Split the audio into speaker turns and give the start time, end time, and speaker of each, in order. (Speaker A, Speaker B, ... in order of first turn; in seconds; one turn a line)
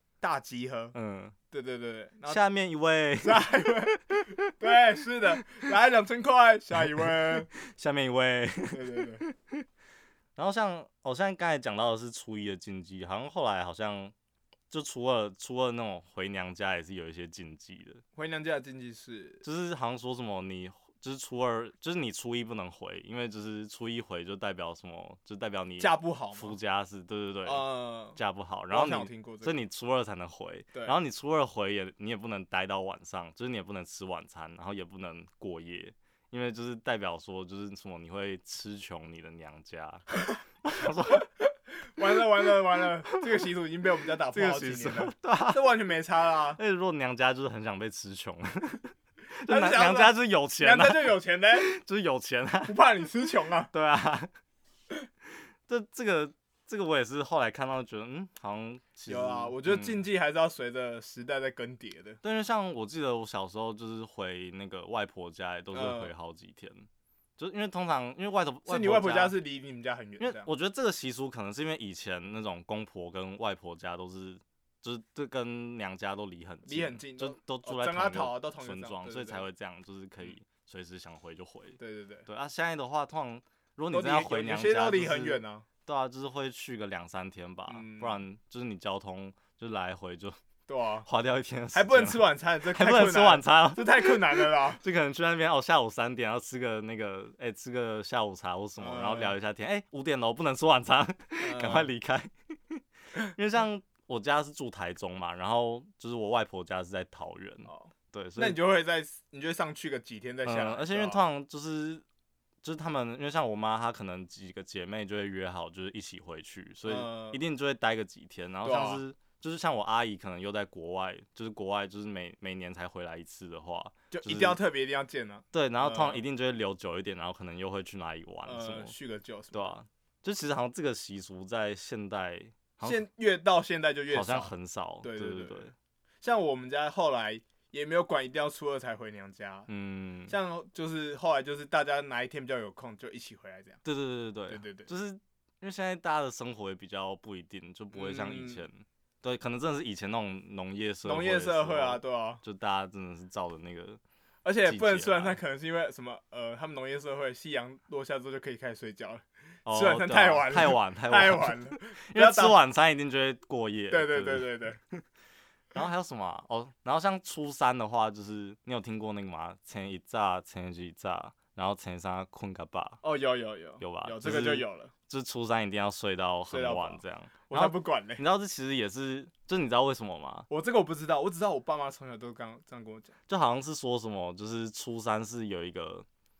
Speaker A: 0.2-0.9
Speaker B: 0.9-1.4
Speaker A: 1.5-2.4
Speaker B: 2.2-4.5
Speaker A: 3.2-7.5
Speaker B: 6.8-9.7
Speaker A: 8.7-9.2
Speaker B: 10.4-14.1
Speaker B: 14.7-18.0
Speaker A: 18.1-19.4
Speaker B: 19.4-40.1
Speaker A: 25.8-26.6
Speaker A: 27.4-28.2
Speaker A: 28.7-29.5
Speaker B: 40.6-41.3
Speaker A: 42.0-46.6
Speaker B: 44.3-45.6
Speaker B: 46.5-48.9
Speaker B: 49.4-52.8
Speaker A: 49.5-51.7
Speaker A: 52.6-53.7
Speaker B: 53.7-54.3
Speaker B: 55.7-60.0
Speaker A: 59.0-62.2
Speaker B: 62.2-69.3
Speaker A: 65.7-66.1
Speaker A: 68.7-70.5
Speaker B: 70.2-90.4
Speaker A: 76.7-79.5
Speaker A: 81.8-82.3
Speaker A: 83.9-85.7
Speaker A: 87.7-88.2
Speaker A: 90.7-91.1
Speaker B: 91.0-108.6
Speaker A: 91.7-94.8
Speaker A: 98.8-99.3
Speaker A: 101.4-101.9
Speaker A: 107.6-111.2
Speaker B: 110.4-112.0
Speaker B: 112.6-124.6
Speaker A: 116.8-117.4
Speaker A: 118.6-119.0
Speaker A: 124.1-126.2
Speaker B: 125.5-128.9
Speaker A: 128.4-129.7
Speaker B: 129.5-133.0
Speaker A: 132.8-135.7
Speaker B: 134.1-135.7
Speaker A: 136.2-139.7
Speaker B: 139.7-140.3
Speaker A: 140.3-143.8
Speaker B: 143.8-154.0
Speaker A: 144.5-144.9
Speaker A: 147.9-148.7
Speaker A: 151.0-152.4
Speaker A: 154.4-162.6
Speaker B: 154.6-155.4
Speaker B: 159.7-165.0
Speaker A: 163.9-164.8
Speaker B: 165.7-173.0
Speaker A: 173.0-174.9
Speaker B: 173.8-180.5
Speaker A: 176.5-178.2
Speaker A: 180.5-183.1
Speaker B: 183.3-186.1